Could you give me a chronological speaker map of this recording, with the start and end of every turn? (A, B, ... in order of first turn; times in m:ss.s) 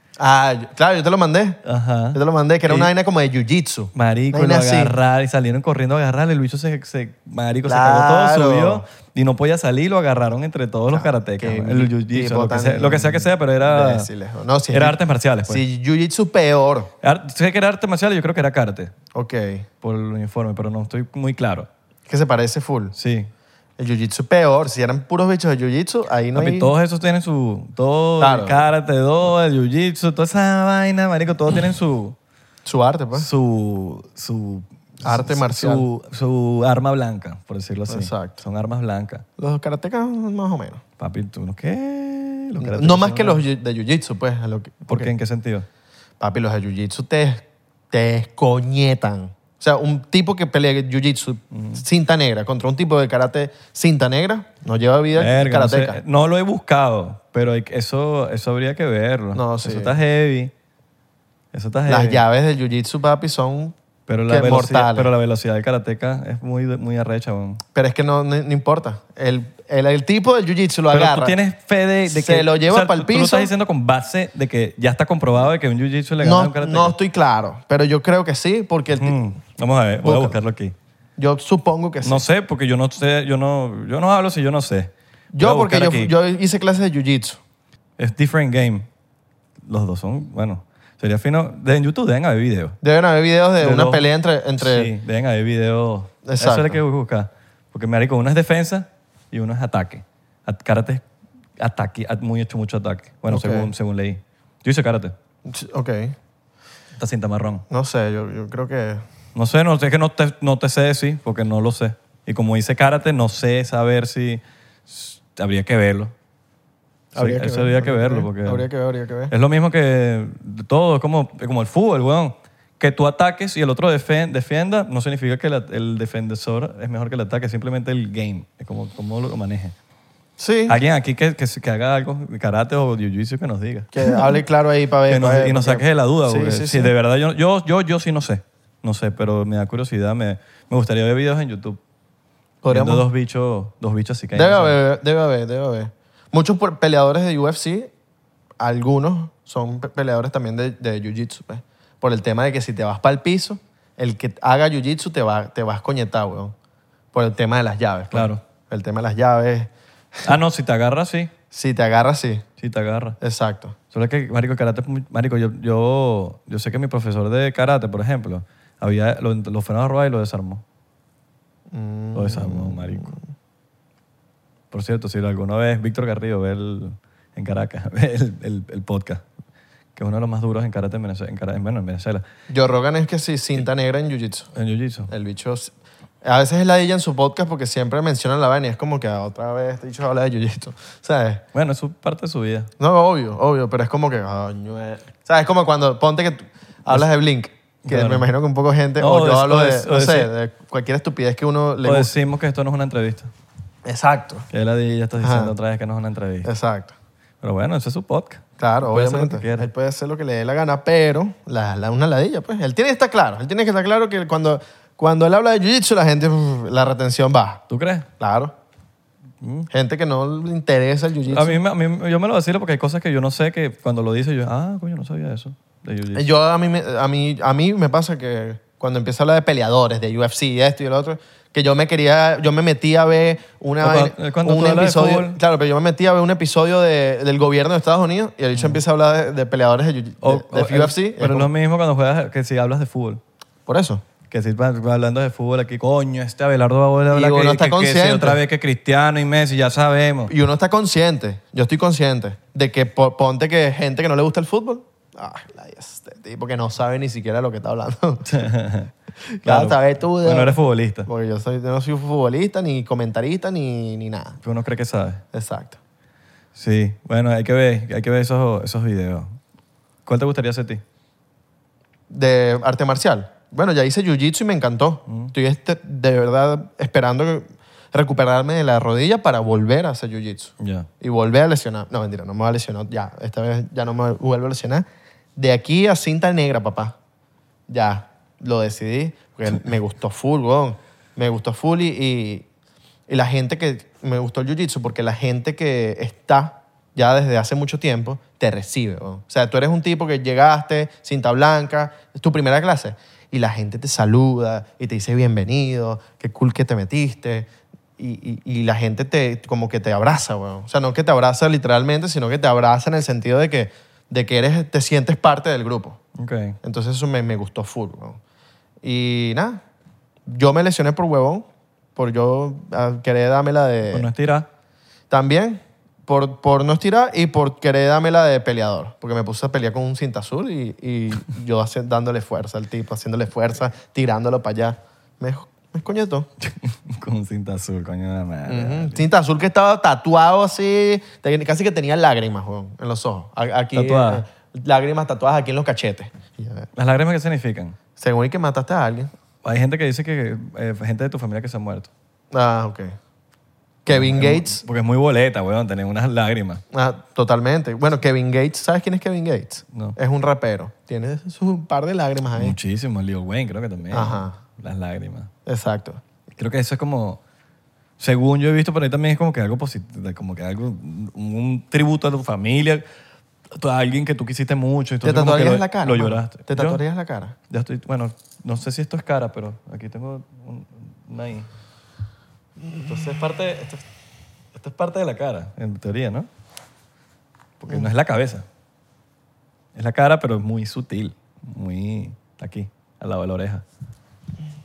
0:00.2-0:01.6 A
0:01.6-0:02.9 B
0:02.1-0:05.0 A
0:03.9-0:14.1 B
0:07.6-0:08.8 A
0:10.9-0:16.9 A
0:14.7-0:15.6 B
0:17.0-0:18.9 B
0:19.1-0:19.7 A
0:19.8-0:21.7 B
0:22.1-0:22.9 A
0:22.9-0:23.3 B
0:23.8-0:26.7 A
0:26.3-0:32.2 B
0:28.2-0:28.7 A
0:32.6-0:33.3 A
0:33.1-0:39.2 B
0:35.0-0:35.9 A
0:37.9-0:38.4 A
0:39.4-0:40.8 A
0:41.0-0:43.4 B
0:42.6-0:45.1 A
0:44.8-0:45.6 B
0:46.2-0:56.0 A
0:51.5-0:51.8 B
0:55.1-1:00.5 B
0:59.3-1:00.0 A
1:01.5-1:02.2 B
1:01.9-1:03.7 A
1:04.1-1:07.6 B
1:04.3-1:05.1 A
1:07.7-1:11.4 A
1:10.9-1:17.0 B
1:12.1-1:13.5 A
1:16.2-1:19.2 A
1:18.9-1:20.7 B
1:20.0-1:20.4 A
1:21.2-1:22.2 A
1:22.0-1:26.1 B
1:25.3-1:27.4 A
1:28.0-1:28.9 B
1:29.6-1:32.8 B
1:32.8-1:34.9 A
1:33.6-1:41.0 B
1:36.2-1:36.8 A
1:41.6-1:45.1 B
1:43.3-1:43.7 A
1:45.4-1:46.2 A
1:47.0-1:47.6 B
1:47.7-1:49.0 A
1:49.3-1:56.1 B
1:57.1-1:59.3 A
1:57.2-1:58.6 B
1:59.3-2:09.7 B
2:10.4-2:10.8 A
2:10.7-2:14.3 B
2:13.9-2:16.9 A
2:15.1-2:21.8 B
2:22.6-2:23.0 A
2:22.7-2:24.7 B
2:24.3-2:27.9 A
2:28.6-2:36.5 A
2:37.1-2:40.3 A
2:38.1-2:38.4 B
2:40.2-2:41.3 B
2:41.5-2:42.4 A
2:42.6-2:43.2 B
2:43.2-2:43.8 A
2:43.9-2:50.6 B
2:51.7-2:53.2 A
2:52.1-2:53.1 B
2:54.7-2:59.2 B
3:00.0-3:02.2 B
3:02.5-3:04.5 A
3:04.5-3:05.1 B
3:05.1-3:11.4 A
3:11.5-3:12.7 B
3:12.8-3:22.1 A
3:17.8-3:18.3 B
3:19.0-3:20.3 B
3:21.8-3:23.3 B
3:23.8-3:24.5 A
3:24.5-3:26.5 B
3:25.2-3:25.5 A
3:26.4-3:26.9 A
3:27.4-3:29.7 B
3:28.6-3:37.6 A
3:37.7-3:38.1 B
3:38.2-3:38.5 A
3:39.4-3:39.7 B
3:39.7-3:41.6 A
3:41.3-3:46.3 B
3:46.1-4:01.5 A
3:53.8-3:55.4 B
3:58.5-3:58.8 B
4:00.2-4:03.2 B
4:03.7-4:04.0 A
4:04.3-4:10.3 B
4:07.1-4:08.4 A
4:10.3-4:18.2 A
4:18.2-4:18.9 B
4:19.3-4:24.4 A
4:19.4-4:21.1 B
4:24.4-4:25.2 B
4:25.3-4:25.8 A
4:26.5-4:29.4 B
4:30.0-4:30.8 B
4:32.1-4:46.9 A
4:35.1-4:35.3 B
4:40.6-4:40.9 B
4:47.7-4:52.4 A
4:53.1-5:16.0 A
5:16.2-5:16.6 B
5:16.6-5:18.2 A
5:18.8-5:19.6 A
5:20.3-5:24.1 A
5:23.9-5:24.5 B
5:25.1-5:36.3 A
5:36.4-5:39.0 B
5:38.5-5:46.7 A
5:43.7-5:44.2 B
5:46.7-5:47.8 B
5:48.0-5:49.1 A
5:49.4-5:51.9 B
5:52.3-5:53.0 A
5:53.8-5:54.6 A
5:53.9-5:56.6 B
5:56.7-6:02.6 A
6:02.4-6:05.3 B
6:03.9-6:04.4 A
6:05.4-6:06.0 A
6:06.4-6:07.2 B
6:08.0-6:12.8 B
6:13.5-6:16.8 B
6:15.0-6:17.3 A
6:17.5-6:21.5 B
6:22.8-6:23.8 B
6:24.5-6:26.3 B
6:27.6-6:28.4 B
6:29.7-6:33.6 B